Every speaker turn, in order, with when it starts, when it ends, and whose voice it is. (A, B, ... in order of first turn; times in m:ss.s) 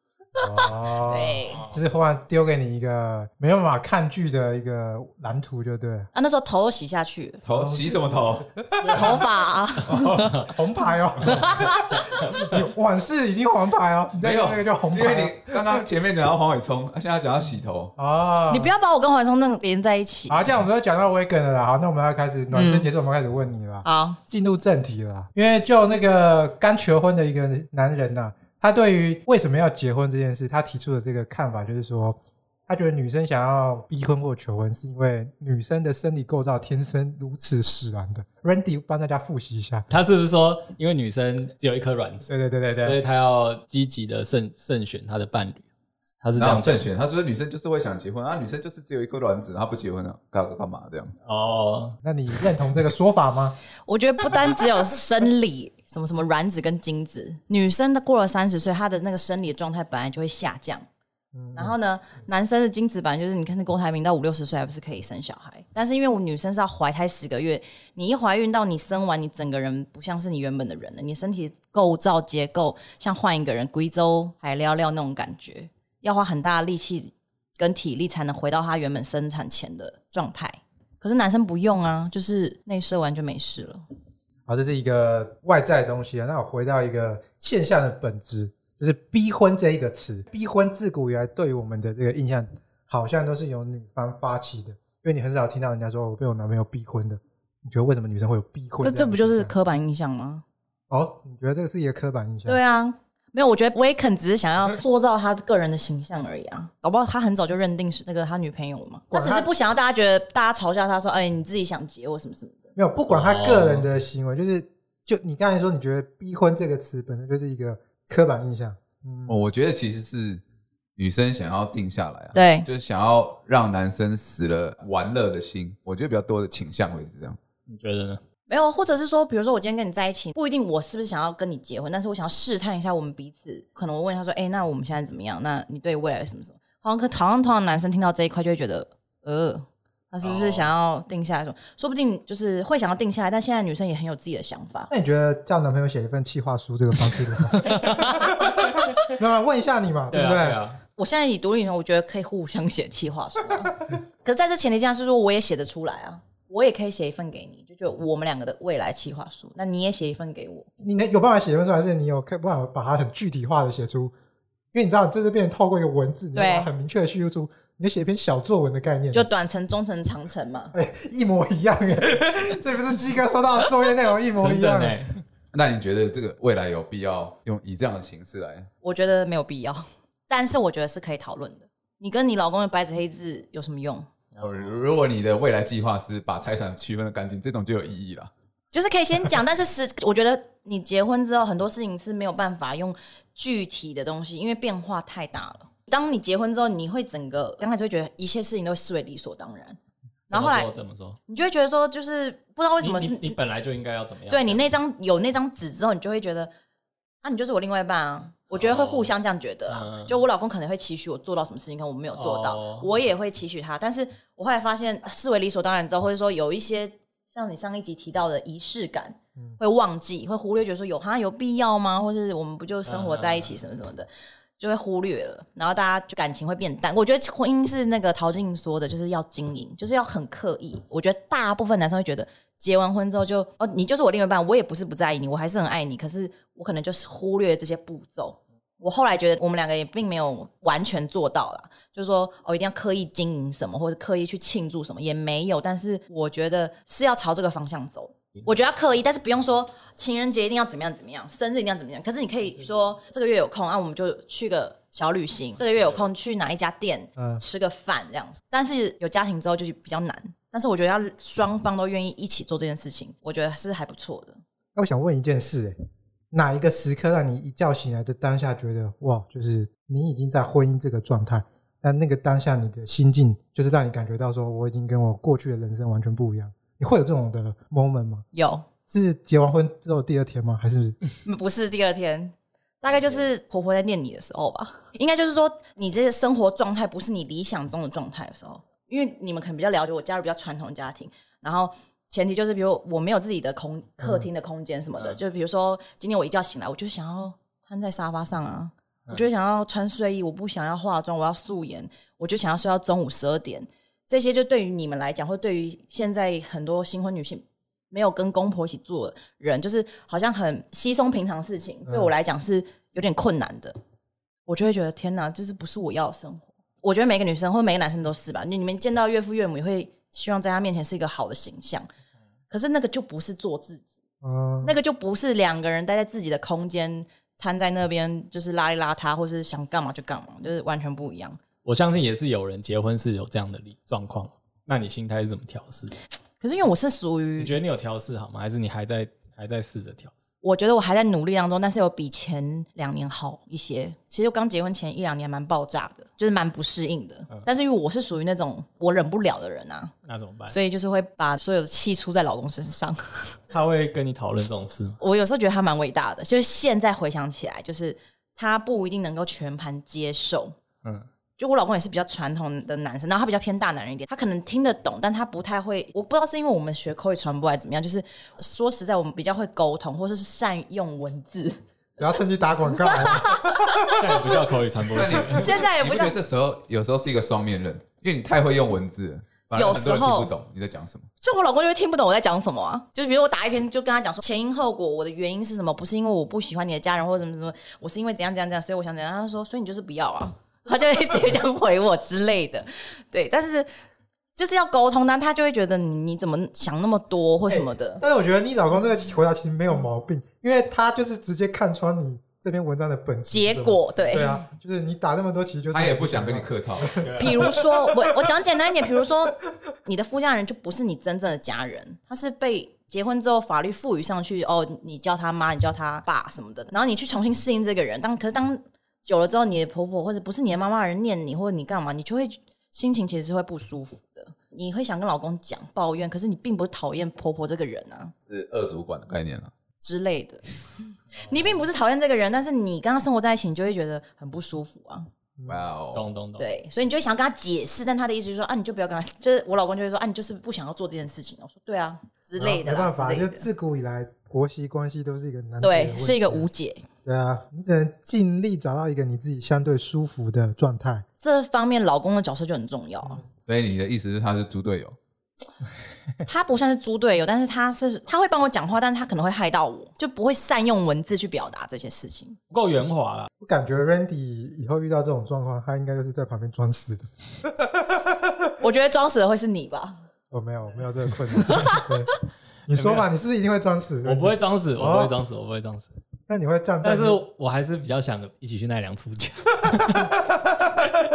0:00.4-0:06.1 A
0:00.6-0:01.6 B
0:01.5-0:01.8 C
0:06.1-0:07.4 B
0:07.4-0:08.5 D
0:07.5-0:09.2 A
0:08.8-0:09.2 C
0:08.9-0:10.3 B
0:09.9-0:15.8 A
0:10.1-0:10.5 C
0:11.2-0:12.0 B
0:14.2-0:17.9 D
0:18.0-0:18.7 A
0:18.5-0:20.5 B
0:20.3-0:39.9 A
0:22.5-0:22.9 B
0:23.8-0:24.2 B
0:39.9-0:42.3 C
0:42.3-0:43.0 A
0:42.8-0:45.6 C
0:46.2-0:46.9 C
0:46.4-0:51.1 D
0:51.2-0:52.0 C
0:52.0-0:53.6 A
0:53.9-1:00.8 B
1:01.3-1:01.8 A
1:01.6-1:23.8 B
1:24.5-1:39.5 A
1:38.8-1:40.4 B
1:40.9-1:42.6 A
1:42.5-1:52.7 B
1:49.1-1:49.5 A
1:52.8-1:59.4 A
1:53.1-1:53.9 C
1:59.3-2:00.4 D
2:01.0-2:07.4 D
2:02.3-2:02.7 B
2:07.7-2:08.2 C
2:08.5-2:24.9 B
2:20.2-2:20.7 C
2:24.9-2:28.3 A
2:27.5-2:29.1 C
2:28.2-2:28.7 B
2:29.0-2:30.6 A
2:30.1-2:30.8 C
2:31.0-2:40.7 B
2:40.8-2:44.1 A
2:44.7-2:49.3 A
2:46.3-2:46.7 B
2:49.1-2:50.7 B
2:50.7-2:55.0 A
2:54.4-2:55.2 C
2:55.5-2:58.7 D
2:58.8-3:04.1 B
3:04.3-3:04.7 C
3:04.4-3:08.3 D
3:08.7-3:19.8 B
3:20.3-3:20.7 B
3:20.3-3:21.2 C
3:21.3-3:23.4 B
3:22.8-3:24.7 C
3:24.3-3:26.5 B
3:27.2-4:24.4 B
3:28.5-3:29.1 C
3:29.7-3:30.2 C
3:32.2-3:32.9 C
3:42.9-3:43.6 C
4:17.2-4:17.4 A
4:24.8-4:25.8 A
4:26.3-4:38.2 A
4:38.3-4:38.6 B
4:38.9-4:41.0 A
4:41.2-5:13.8 B
4:42.9-4:43.2 C
5:11.9-5:12.1 A
5:14.5-5:21.9 B
5:22.5-5:23.9 B
5:24.2-5:24.8 A
5:24.6-5:31.4 B
5:31.6-5:36.0 C
5:36.4-5:37.5 B
5:37.4-5:40.1 C
5:40.4-5:49.9 B
5:50.0-5:50.6 C
5:50.5-5:53.4 B
5:53.5-5:55.0 C
5:55.0-6:00.6 B
6:01.4-6:11.6 B
6:12.0-6:14.2 A
6:12.7-6:14.0 B
6:14.0-6:15.5 C
6:14.9-6:21.1 D
6:15.3-6:16.2 B
6:19.6-6:20.3 B
6:21.2-6:33.7 B
6:34.4-6:38.0 B
6:37.5-6:48.3 A
6:43.3-6:44.4 B
6:45.7-6:47.0 D
6:47.0-6:47.5 C
6:47.2-7:08.1 B
7:08.3-7:09.5 D
7:09.8-7:10.4 B
7:11.2-7:15.1 B
7:15.4-7:15.7 A
7:15.5-7:16.1 D
7:15.9-7:16.5 C
7:16.4-7:23.5 B
7:22.4-7:26.5 A
7:25.6-7:26.9 B
7:27.0-7:31.0 A
7:31.2-7:33.2 B
7:33.5-7:35.0 D
7:36.3-7:42.4 B
7:42.5-7:43.3 C
7:43.4-7:48.4 A
7:48.6-7:50.0 B
7:50.3-7:52.1 A
7:51.4-7:51.9 B
7:52.7-7:55.1 A
7:52.7-7:53.1 C
7:54.0-7:55.9 C
7:56.3-7:57.2 A
7:56.8-8:00.2 C
8:00.0-8:00.4 A